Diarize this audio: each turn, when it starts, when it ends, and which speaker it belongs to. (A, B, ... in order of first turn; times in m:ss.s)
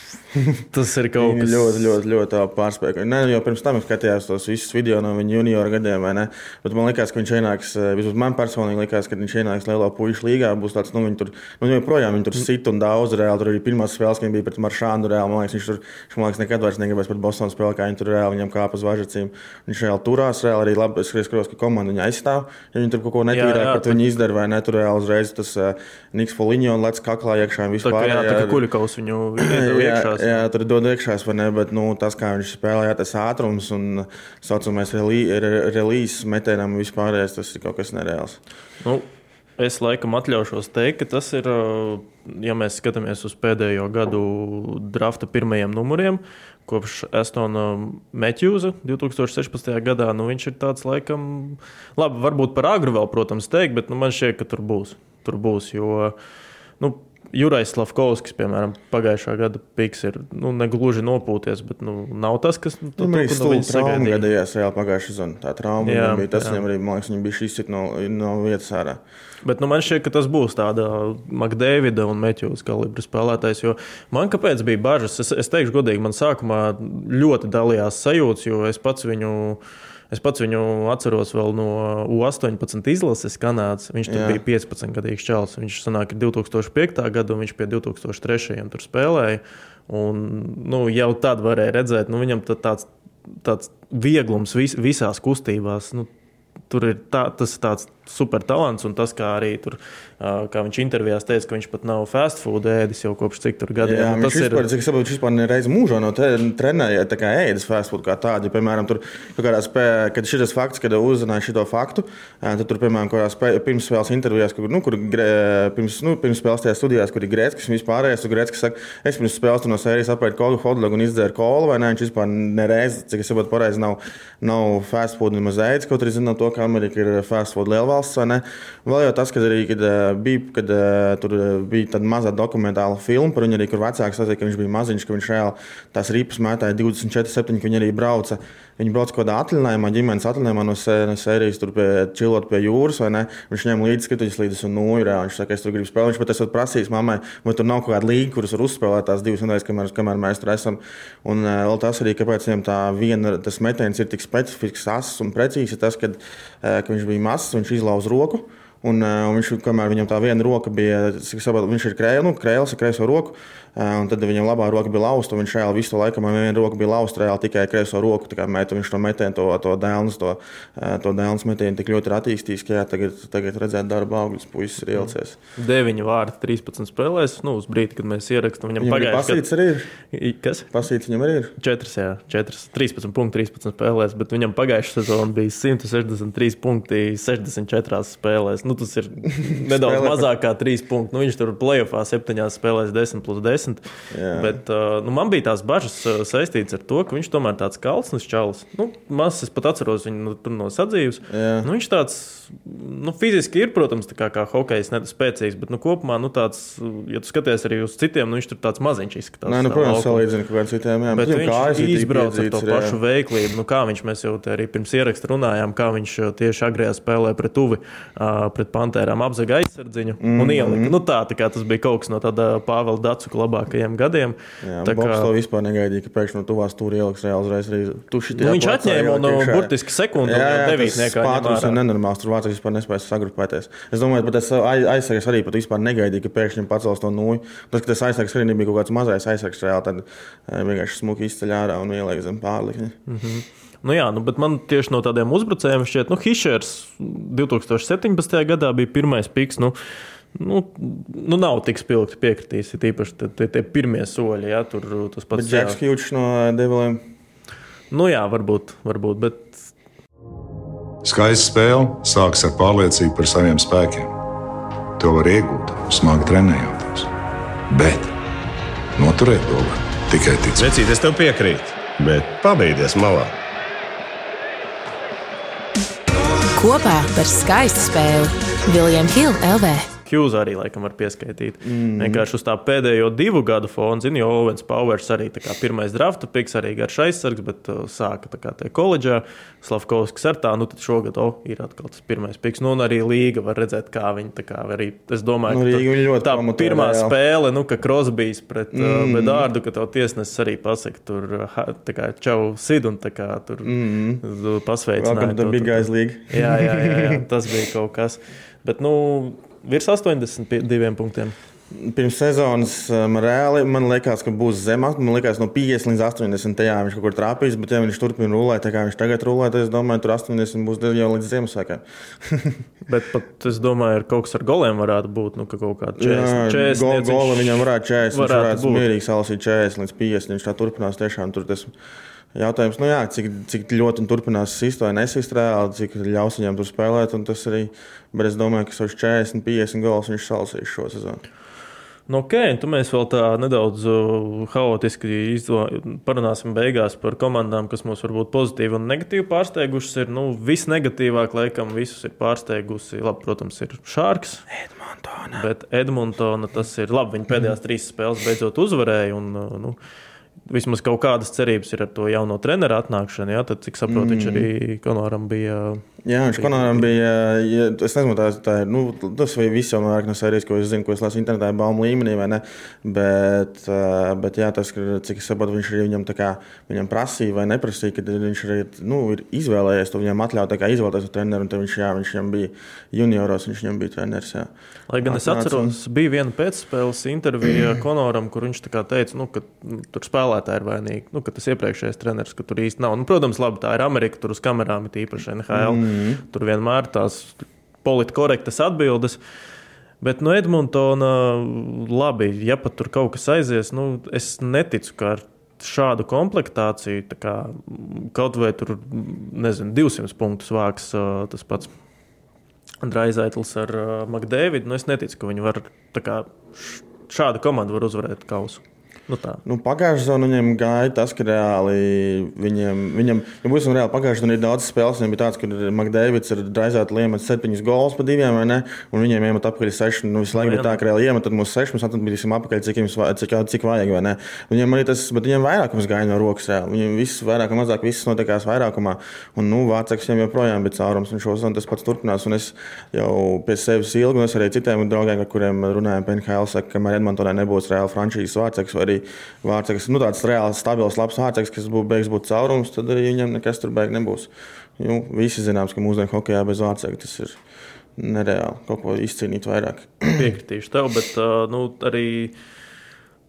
0:00.3-0:00.6 A
0:00.7-0:02.0 B
0:01.2-0:28.6 A
0:23.3-0:24.0 B
0:27.8-0:30.4 B
0:29.4-0:38.4 A
0:38.8-0:56.1 B
0:56.8-1:04.2 B
1:03.0-1:09.0 A
1:05.8-1:06.6 B
1:09.4-1:36.1 B
1:24.1-1:24.4 A
1:36.7-1:44.6 B
1:43.8-2:55.4 A
2:55.0-2:59.5 B
2:58.8-2:59.9 A
3:00.0-3:00.7 B
3:00.7-3:01.5 A
3:01.6-3:30.2 B
3:09.4-3:10.3 A
3:14.1-3:14.6 A
3:21.3-3:21.7 A
3:29.5-3:33.0 A
3:31.1-3:45.3 B
3:40.2-3:40.9 A
3:44.6-4:03.0 A
3:48.4-3:51.8 B
4:03.1-4:09.8 B
4:10.3-4:15.8 B
4:15.3-4:17.0 A
4:17.9-4:19.6 B
4:21.0-4:24.1 C
4:25.0-4:27.1 C
4:27.7-4:28.1 C
4:29.0-4:30.6 C
4:30.5-4:33.3 D
4:36.6-4:39.9 E
4:40.0-5:11.3 B
4:41.6-4:42.2 A
4:55.5-4:57.1 A
4:58.7-4:59.5 A
5:03.6-5:04.2 A
5:05.0-5:07.2 A
5:11.7-5:22.6 A
5:22.9-5:28.9 B
5:26.0-5:31.7 A
5:32.3-5:41.2 A
5:42.1-5:54.4 B
5:54.5-5:55.4 A
5:55.3-5:59.8 B
6:00.4-6:06.9 B
6:03.9-6:04.5 A
6:06.0-6:24.5 A
6:24.9-6:39.2 B
6:25.0-6:25.7 A
6:35.5-6:36.2 A
6:40.0-6:51.7 B
6:52.8-6:59.4 B
6:59.4-7:37.4 A
7:10.3-7:10.8 B
7:38.0-7:40.3 A
7:40.1-7:42.3 B